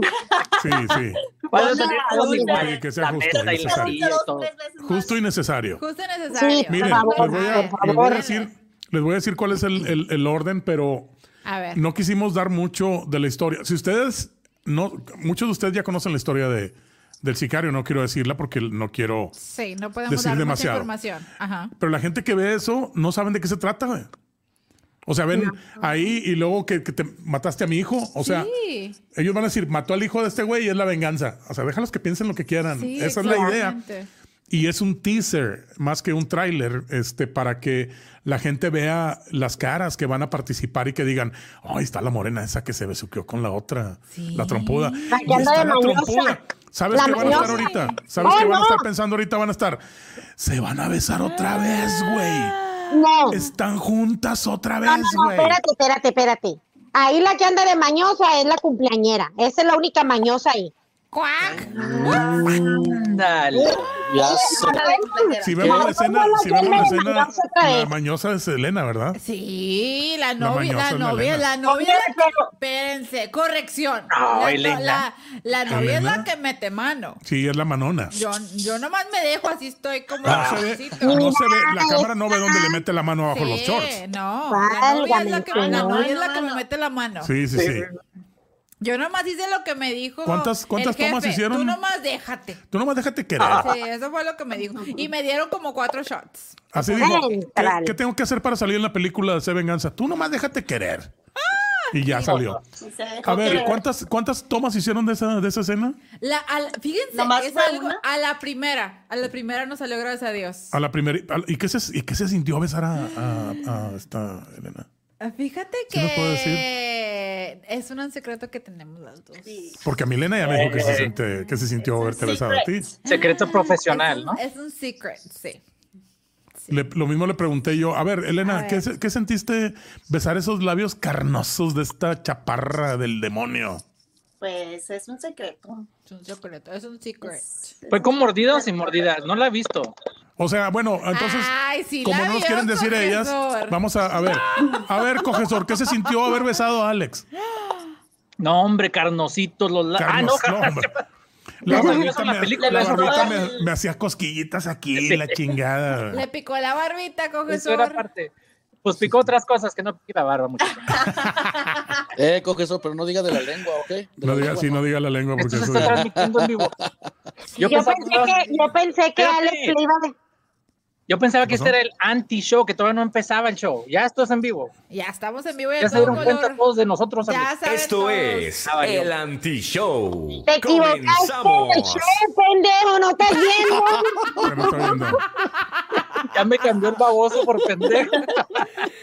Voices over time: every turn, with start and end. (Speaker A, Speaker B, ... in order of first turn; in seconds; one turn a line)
Speaker A: 0.6-1.2
Speaker B: 1.5-4.5
Speaker C: 1.5-2.8
Speaker D: 1.6-2.6
Speaker A: 2.6-4.0
Speaker C: 3.5-5.2
Speaker A: 4.8-5.8
Speaker E: 5.8-8.5
Speaker D: 6.3-8.2
Speaker A: 6.7-11.1
Speaker E: 11.4-11.8
Speaker A: 11.7-19.3
Speaker E: 19.4-21.7
Speaker A: 20.1-20.9
Speaker A: 21.8-24.1
Speaker A: 25.1-28.5
Speaker D: 25.3-25.7
Speaker E: 28.2-29.0
Speaker A: 29.1-33.8
Speaker E: 32.7-34.1
Speaker A: 34.5-49.8
Speaker E: 44.1-45.6
Speaker D: 45.1-46.4
Speaker D: 46.9-47.6
Speaker E: 46.9-48.4
Speaker D: 48.2-48.8
Speaker A: 50.4-52.5
Speaker E: 51.2-53.5
Speaker D: 52.9-53.4
Speaker A: 53.3-55.6
Speaker D: 54.8-60.7
Speaker E: 61.1-62.3
Speaker F: 61.5-63.0
Speaker B: 62.9-63.7
Speaker F: 63.5-64.8
Speaker D: 64.2-67.9
Speaker C: 64.3-65.9
Speaker A: 65.4-69.2
Speaker E: 69.1-77.2
Speaker A: 70.4-71.5
Speaker D: 71.7-72.5
Speaker B: 74.1-75.0
Speaker A: 75.7-76.2
Speaker A: 77.2-78.1
Speaker E: 78.1-81.2
Speaker A: 80.2-84.0
Speaker B: 80.3-80.6
Speaker D: 81.0-82.8
Speaker E: 83.3-87.3
Speaker D: 84.5-86.0
Speaker C: 85.5-86.6
Speaker A: 87.2-87.8
Speaker B: 87.5-87.8
Speaker E: 88.8-92.6
Speaker A: 90.2-91.8
Speaker A: 92.7-93.7
Speaker B: 93.4-93.7
Speaker E: 93.5-97.2
Speaker C: 94.8-95.0
Speaker A: 96.7-101.1
Speaker D: 97.0-97.9
Speaker E: 101.4-102.5
Speaker A: 101.9-102.6
Speaker C: 102.8-103.8
Speaker A: 103.2-106.0
Speaker E: 106.2-110.7
Speaker C: 107.1-108.0
Speaker A: 110.7-114.8
Speaker E: 113.0-113.6
Speaker E: 115.2-119.5
Speaker A: 115.9-116.7
Speaker C: 119.4-119.8
Speaker A: 119.8-122.9
Speaker B: 120.5-121.1
Speaker E: 120.9-121.6
Speaker C: 121.8-122.7
Speaker B: 123.0-124.4
Speaker E: 123.0-125.6
Speaker A: 126.7-133.8
Speaker E: 128.4-128.8
Speaker C: 134.4-135.9
Speaker E: 136.1-137.7
Speaker C: 137.2-139.1
Speaker B: 137.9-139.9
Speaker A: 140.4-141.5
Speaker E: 141.1-144.4
Speaker A: 142.0-147.2
Speaker E: 147.5-147.9
Speaker B: 148.4-151.0
Speaker A: 150.0-150.9
Speaker A: 151.6-156.2
Speaker B: 151.7-153.5
Speaker C: 151.7-153.7
Speaker B: 154.9-155.4
Speaker E: 156.1-158.0
Speaker B: 157.5-158.3
Speaker B: 158.8-161.1
Speaker C: 160.8-161.2
Speaker F: 162.2-164.8
Speaker A: 164.2-166.0
Speaker B: 165.4-166.7
Speaker F: 165.4-166.9
Speaker E: 167.5-168.5
Speaker B: 167.6-168.5
Speaker D: 167.6-170.1
Speaker B: 169.2-169.8
Speaker B: 171.1-174.7
Speaker A: 171.4-171.7
Speaker E: 174.9-176.6
Speaker B: 175.8-177.5
Speaker E: 177.3-178.5
Speaker G: 177.6-182.2
Speaker B: 178.6-179.1
Speaker D: 180.5-184.3
Speaker A: 184.4-185.2
Speaker E: 185.6-186.2
Speaker B: 186.3-188.2